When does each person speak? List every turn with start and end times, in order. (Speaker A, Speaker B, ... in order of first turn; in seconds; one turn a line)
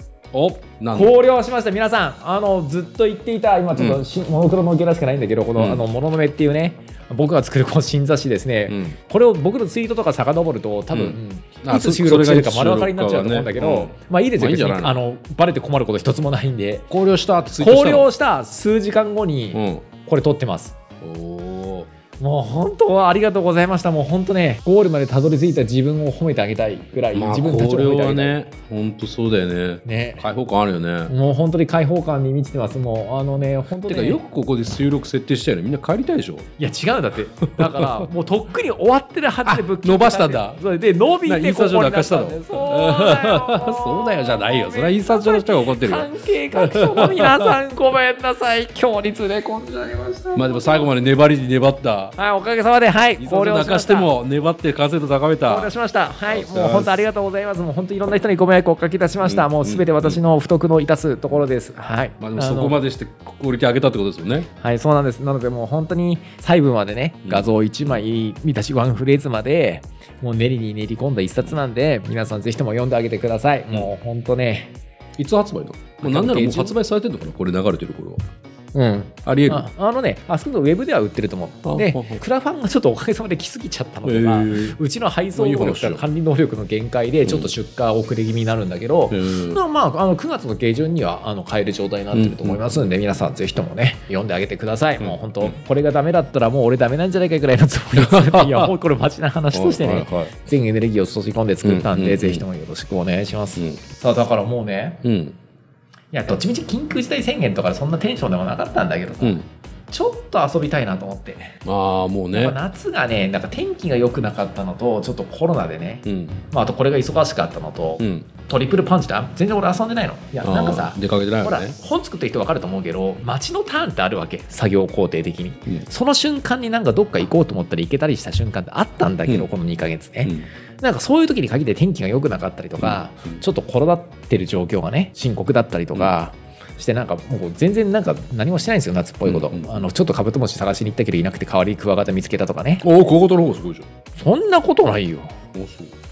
Speaker A: 0.3-1.2
Speaker B: 0.9-16.9
Speaker A: 3.8-4.0
Speaker A: 5.6-5.8
Speaker A: 8.7-8.9
Speaker A: 10.9-15.0
Speaker A: 16.9-18.1
Speaker B: 17.6-20.7
Speaker A: 19.5-19.9
Speaker A: 21.0-21.9
Speaker B: 22.2-28.4
Speaker A: 27.1-31.1
Speaker B: 29.8-30.2
Speaker B: 31.1-34.2
Speaker A: 33.8-36.5
Speaker B: 36.6-50.9
Speaker A: 37.5-38.1
Speaker A: 39.5-40.6
Speaker A: 41.2-47.5
Speaker A: 50.4-52.1
Speaker B: 52.2-54.1
Speaker A: 53.2-55.7
Speaker B: 55.4-62.8
Speaker A: 56.3-57.0
Speaker A: 59.2-60.2
Speaker A: 62.2-64.5
Speaker B: 64.6-74.7
Speaker A: 75.2-78.3
Speaker B: 76.0-76.8
Speaker B: 78.7-105.0
Speaker A: 79.2-79.7
Speaker A: 81.6-82.2
Speaker A: 84.0-84.8
Speaker A: 85.3-86.0
Speaker A: 87.2-87.5
Speaker A: 89.1-89.6
Speaker A: 92.1-92.8
Speaker A: 95.0-95.5
Speaker A: 98.0-98.7
Speaker A: 99.5-100.3
Speaker A: 101.6-102.5
Speaker A: 105.0-105.4
Speaker B: 106.1-111.6
Speaker A: 111.6-112.6
Speaker B: 112.3-142.8
Speaker A: 116.0-116.4
Speaker A: 118.0-118.3
Speaker A: 120.4-121.8
Speaker A: 139.2-139.8
Speaker A: 142.8-143.9
Speaker B: 144.2-145.3
Speaker A: 145.5-145.9